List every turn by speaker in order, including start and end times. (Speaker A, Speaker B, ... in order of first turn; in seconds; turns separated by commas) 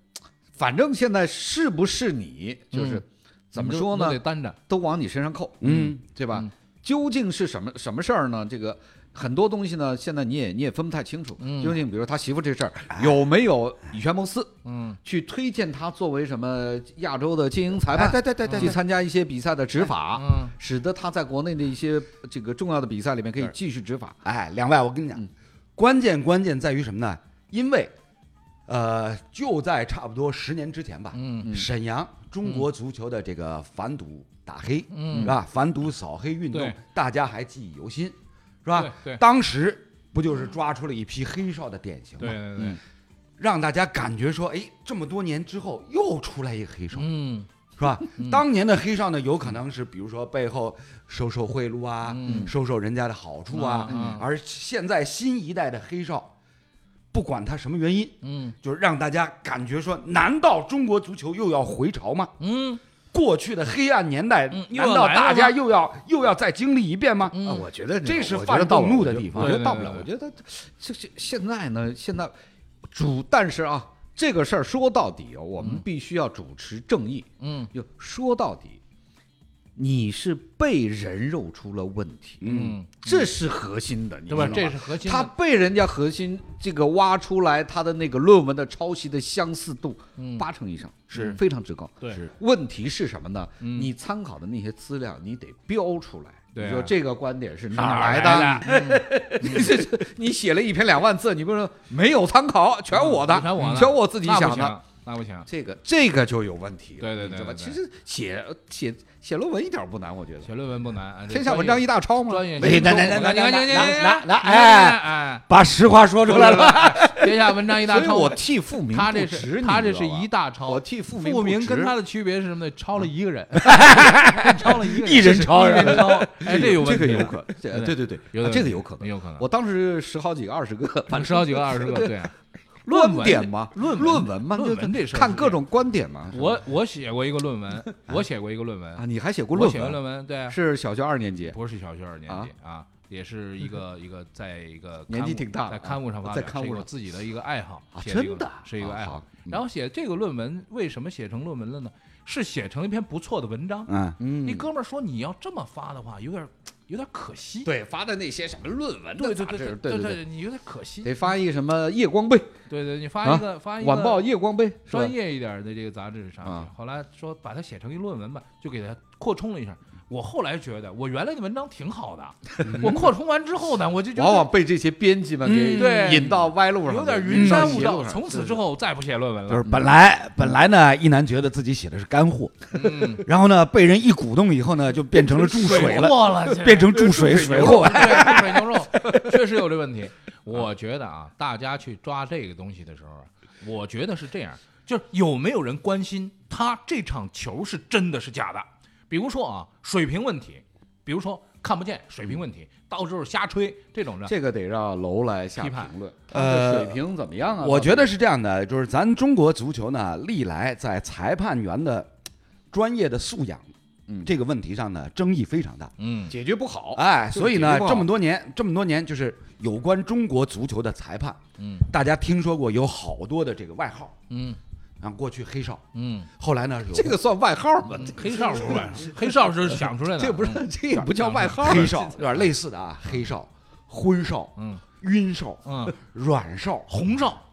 Speaker A: 0.6-24.2, Speaker B: 2.7-3.0, Speaker B: 3.5-4.6, Speaker C: 5.6-6.0, Speaker B: 11.4-11.8, Speaker B: 14.7-15.0, Speaker C: 17.9-18.8, Speaker B: 20.1-20.5, Speaker C: 24.2-27.9, Speaker C: 28.7-42.4, Speaker B: 31.1-31.5, Speaker B: 34.9-35.3, Speaker A: 35.1-35.4, Speaker B: 38.8-39.2, Speaker B: 42.2-42.8, Speaker C: 43.4-47.1, Speaker B: 46.9-47.5, Speaker C: 47.8-56.3, Speaker B: 52.1-52.5, Speaker A: 52.2-52.5, Speaker B: 53.5-54.2, Speaker A: 53.9-54.2, Speaker C: 57.1-62.3, Speaker B: 58.2-58.5, Speaker B: 62.4-62.8, Speaker C: 63.1-67.4, Speaker B: 64.5-65.5, Speaker B: 67.3-67.6, Speaker A: 67.4-72.3, Speaker C: 68.0-69.6, Speaker B: 69.3-70.1, Speaker A: 72.9-78.8, Speaker B: 77.4-77.7, Speaker A: 79.8-104.8, Speaker C: 82.4-82.8, Speaker B: 82.4-83.3, Speaker B: 84.3-85.3, Speaker C: 84.3-84.7, Speaker B: 90.2-90.4, Speaker C: 91.1-91.4, Speaker B: 93.6-93.9, Speaker B: 96.5-96.9, Speaker B: 97.7-99.7, Speaker C: 97.7-98.7, Speaker B: 102.9-105.5, Speaker A: 105.5-110.5, Speaker B: 107.0-107.8, Speaker B: 110.4-115.4, Speaker A: 111.3-114.0, Speaker C: 112.5-117.1, Speaker A: 116.3-122.0, Speaker B: 116.3-129.4, Speaker C: 123.6-126.5, Speaker A: 124.8-132.3, Speaker B: 131.1-132.3, Speaker A: 132.8-136.6, Speaker B: 132.9-135.5, Speaker B: 136.3-140.6, Speaker A: 138.9-141.6, Speaker B: 141.5-157.7, Speaker A: 145.1-146.9, Speaker C: 148.0-148.5, Speaker A: 148.1-149.6, Speaker C: 153.9-154.2, Speaker A: 154.2-154.7, Speaker A: 157.6-160.2, Speaker B: 159.2-161.1, Speaker A: 161.0-162.5, Speaker B: 162.7-164.2, Speaker A: 163.2-165.2, Speaker B: 164.9-174.5, Speaker A: 166.4-166.7, Speaker A: 172.5-173.1, Speaker C: 172.7-173.0, Speaker A: 174.1-178.6, Speaker C: 175.4-176.4, Speaker B: 175.7-179.7, Speaker C: 177.2-177.8, Speaker C: 179.5-188.8, Speaker B: 182.7-183.2, Speaker A: 185.4-189.3, Speaker B: 185.6-186.9, Speaker B: 187.5-204.3, Speaker A: 204.2-208.1, Speaker C: 206.3-207.0, Speaker C: 207.6-212.1, Speaker C: 212.7-213.7, Speaker C: 214.2-215.9, Speaker B: 216.0-216.3, Speaker A: 216.3-218.1, Speaker C: 216.9-224.1, Speaker B: 221.6-221.8, Speaker B: 224.3-224.6, Speaker C: 225.0-227.2, Speaker B: 225.9-226.3, Speaker A: 226.9-232.2, Speaker B: 228.0-231.9, Speaker C: 228.4-228.8, Speaker C: 230.9-236.9, Speaker B: 236.9-237.4